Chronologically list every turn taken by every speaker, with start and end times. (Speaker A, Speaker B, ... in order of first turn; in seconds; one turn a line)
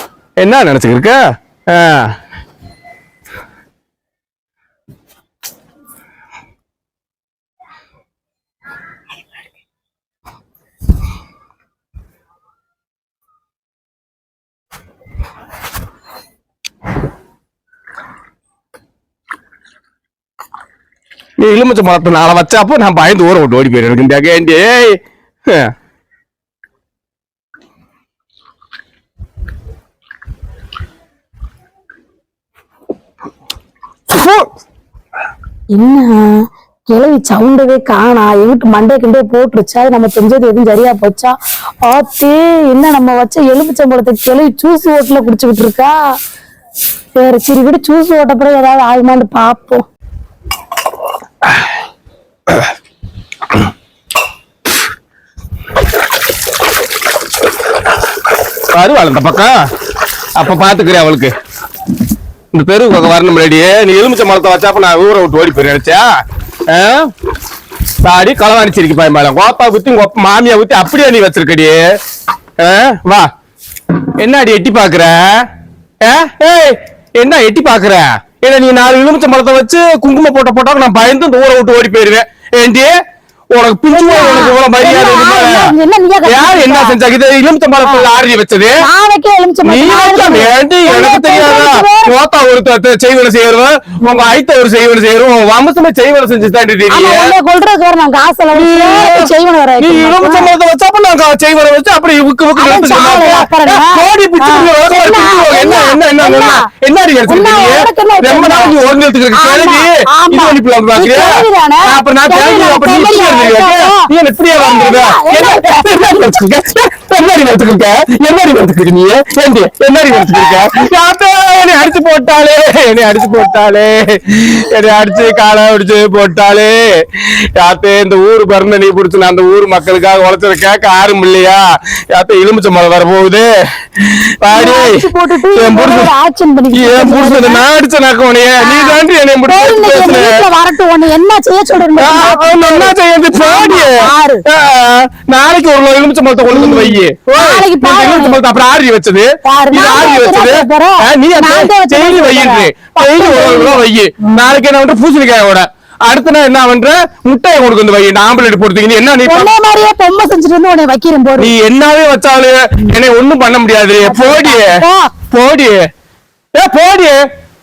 Speaker A: 0.4-2.1
Speaker A: 21.4-25.7
Speaker B: 35.7-41.3
Speaker B: 41.8-46.0
Speaker B: 47.1-49.8
Speaker A: 58.7-59.5
Speaker A: 60.4-61.3
Speaker A: 62.5-66.1
Speaker A: 66.7-67.1
Speaker A: 68.0-71.8
Speaker A: 72.6-73.3
Speaker A: 74.2-75.5
Speaker A: 76.0-82.9
Speaker A: 83.5-85.7
Speaker B: 83.9-87.0
Speaker A: 86.2-88.9
Speaker B: 87.8-88.1
Speaker B: 88.8-92.1
Speaker A: 89.6-97.3
Speaker B: 96.9-100.5
Speaker A: 98.5-135.0
Speaker B: 102.6-106.7
Speaker B: 107.3-108.8
Speaker B: 109.3-116.0
Speaker B: 134.5-137.6
Speaker A: 135.5-136.1
Speaker A: 136.7-140.4
Speaker B: 138.6-144.4
Speaker A: 142.0-159.5
Speaker B: 146.5-148.4
Speaker B: 149.4-153.8
Speaker B: 159.2-161.5
Speaker A: 161.4-165.9
Speaker B: 164.0-165.1
Speaker A: 166.5-167.2